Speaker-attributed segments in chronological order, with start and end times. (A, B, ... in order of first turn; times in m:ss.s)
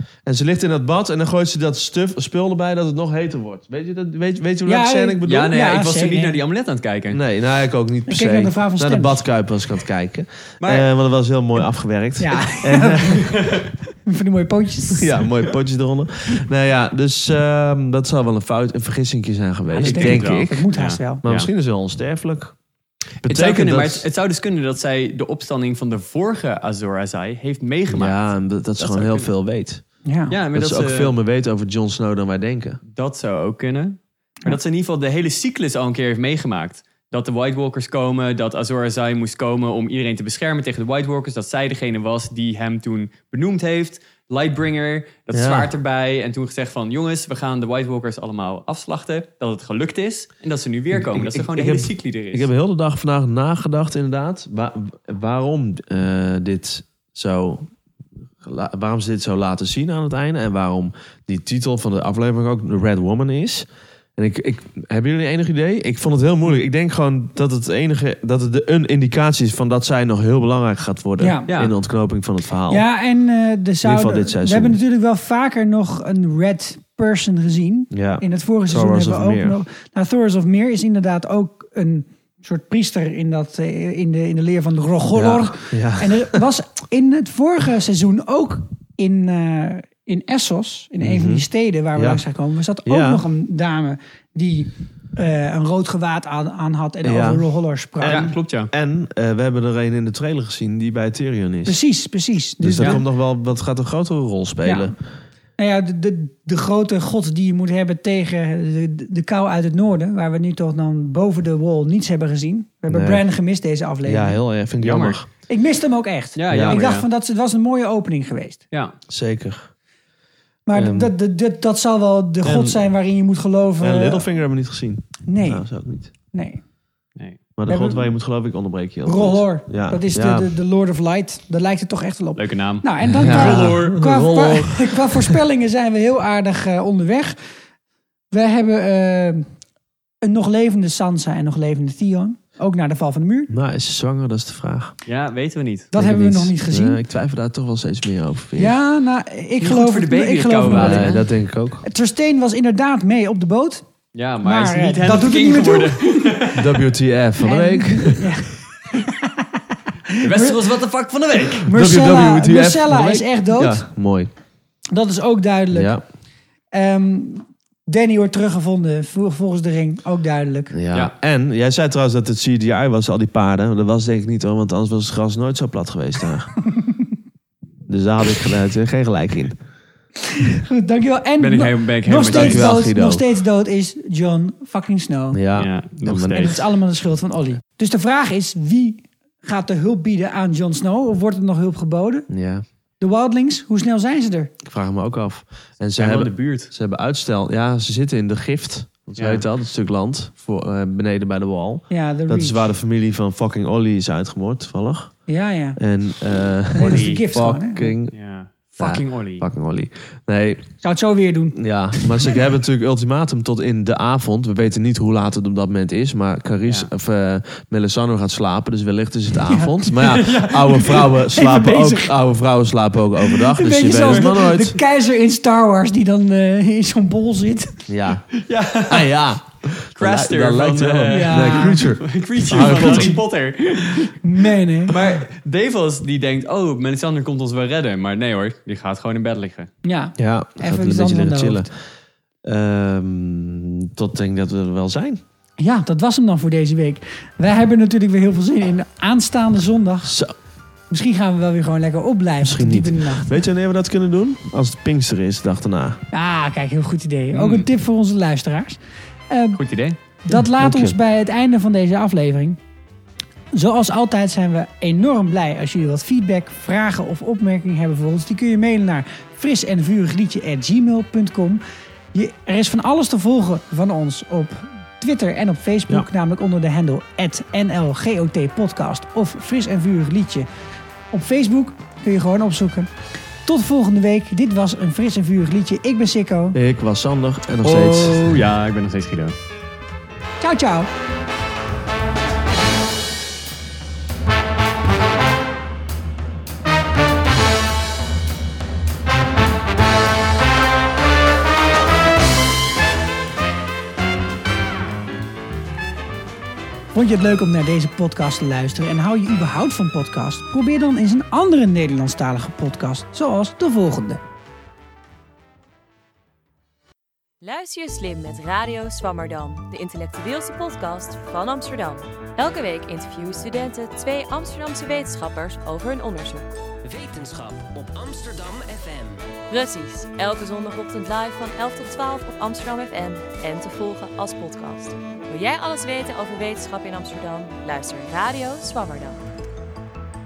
0:00.2-0:05.6 A
0:04.7-0:06.4 B
0:05.2-0:07.2 C
0:07.1-0:13.4 A
0:08.1-0:09.2 B
0:10.6-0:10.9 C
0:12.2-0:13.4 B
0:13.2-0:13.6 C
0:14.0-0:15.2 B
0:15.0-0:20.7 A
0:19.8-0:21.2 B
0:19.8-0:21.5 C
0:21.2-0:22.6 A
0:23.2-0:24.1 A
0:23.2-0:29.3 C
0:27.9-0:29.8 A
0:30.1-0:30.3 B
0:30.3-0:31.1 C
0:30.5-0:32.8 A
0:32.9-0:52.5 C
0:45.3-0:45.7 A
0:50.9-0:57.7 A
0:58.4-1:12.8 A
1:11.2-1:11.5 B
1:11.5-1:11.7 C
1:12.7-1:38.3 B
1:13.8-1:14.8 A
1:17.9-1:19.6 A
1:25.2-1:26.4 A
1:31.0-1:32.2 A
1:32.9-1:33.2 A
1:37.0-1:37.5 A
1:38.0-1:41.8 A
1:38.1-1:38.7 C
1:41.7-1:43.0 B
1:42.6-1:45.0 A
1:44.6-1:44.9 B
1:45.6-1:54.4 B
1:52.9-1:53.2 A
1:54.0-1:55.3 A
1:54.8-1:55.2 C
1:55.5-1:58.6 B
1:56.4-1:57.1 C
1:56.5-1:56.8 A
1:59.1-1:59.7 A
2:00.7-2:04.2 B
2:00.7-2:01.1 A
2:02.4-2:02.8 A
2:03.8-2:06.1 A
2:05.3-2:06.6 B
2:07.6-2:10.5 A
2:07.7-2:08.1 B
2:09.0-2:17.4 B
2:12.4-2:14.0 C
2:13.1-2:15.4 A
2:18.3-2:19.5 B
2:20.2-2:23.5 B
2:23.5-2:25.0 A
2:25.1-2:25.9 C
2:25.9-2:27.0 B
2:25.9-2:28.8 A
2:28.6-2:31.3 B
2:29.6-2:31.3 C
2:30.7-2:31.8 A
2:31.8-2:33.8 B
2:34.1-2:36.7 C
2:34.4-2:36.5 B
2:36.6-2:38.3 A
2:37.4-2:39.3 B
2:40.1-2:40.7 B
2:40.2-2:41.7 C
2:41.6-2:43.8 B
2:41.7-2:44.3 A
2:44.9-2:46.0 B
2:45.7-2:46.0 A
2:46.7-2:50.8 B
2:50.7-2:56.5 A
2:57.9-2:59.6 A
3:00.2-3:05.4 B
3:01.4-3:02.8 C
3:02.3-3:03.2 A
3:05.3-3:06.6 A
3:05.6-3:06.6 C
3:06.4-3:12.3 B
3:12.3-3:12.6 A
3:13.0-3:14.5 B
3:14.6-3:25.2 A
3:16.0-3:16.7 C
3:19.2-3:19.4 C
3:21.9-3:22.7 B
3:25.3-3:25.8 B
3:25.8-3:28.2 A
3:26.7-3:27.9 B
3:26.8-3:27.2 C
3:28.1-3:29.5 C
3:28.8-3:30.6 A
3:30.8-3:32.1 B
3:31.6-3:44.8 A
3:39.5-3:39.8 B
3:40.0-3:41.0 C
3:40.8-3:42.1 B
3:43.3-3:47.9 B
3:47.9-3:48.3 A
3:48.4-3:49.1 C
3:48.9-3:53.2 A
3:50.0-3:54.2 C
3:51.1-3:51.8 B
3:52.6-3:53.2 B
3:53.9-3:55.0 B
3:54.9-3:59.7 C
3:59.8-4:01.7 B
4:00.2-4:01.7 A
4:02.4-4:05.2 A
4:05.6-4:10.2 B
4:10.0-4:10.3 A
4:10.9-4:13.4 B
4:12.4-4:16.0 A
4:16.1-4:18.8 B
4:17.3-4:17.7 C
4:19.3-4:19.6 B
4:19.6-4:20.0 C
4:20.2-4:22.6 B
4:20.3-4:21.0 A
4:23.5-4:31.6 B
4:32.1-4:40.5 B
4:41.1-4:42.9 B
4:43.4-4:46.6 B
4:46.5-4:48.4 A
4:47.6-4:49.4 C
4:50.4-4:50.9 B
5:06.9-5:14.2 B
5:17.4-5:26.4 D
5:26.8-5:29.3 E
5:29.5-5:39.2 D